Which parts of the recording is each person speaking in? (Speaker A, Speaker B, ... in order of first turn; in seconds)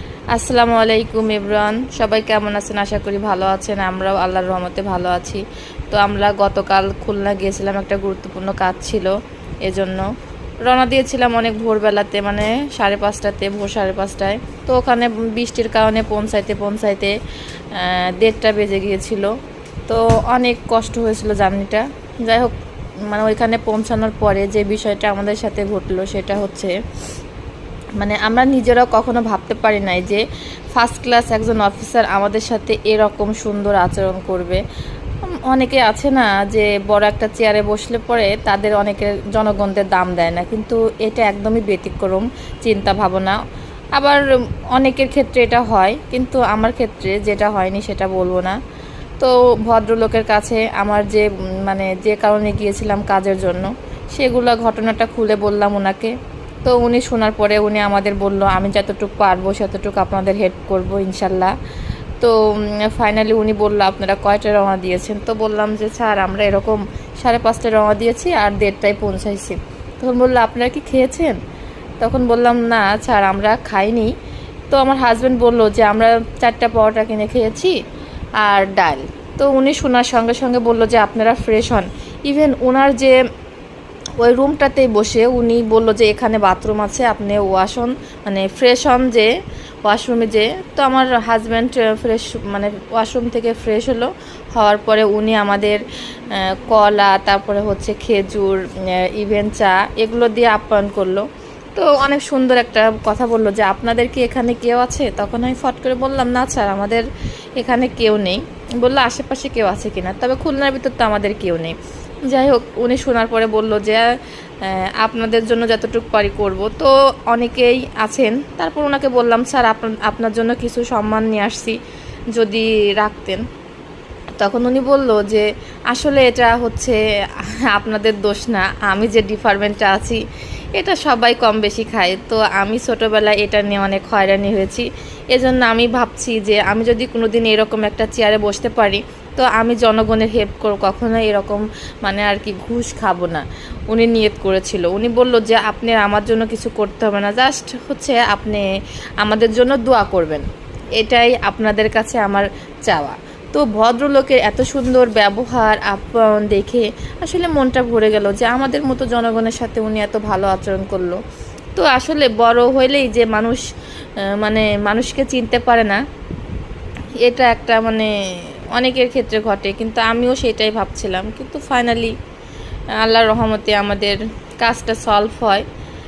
Speaker A: 0.3-10.1, 10.6-17.1, 17.7-19.3, 19.9-22.5, 23.1-26.7, 28.0-34.6, 35.3-43.4, 44.7-48.5, 49.2-56.1, 56.6-61.5, 62.2-71.4, 72.0-74.1, 74.7-77.8, 78.4-83.1, 84.2-89.3, 89.8-107.1, 107.6-111.8, 112.3-114.1, 114.6-121.8, 122.3-123.4, 124.4-130.2, 130.8-148.7, 149.2-150.5, 151.0-161.2, 161.8-163.6, 164.2-166.0, 167.2-168.1, 168.7-172.1, 173.0-175.7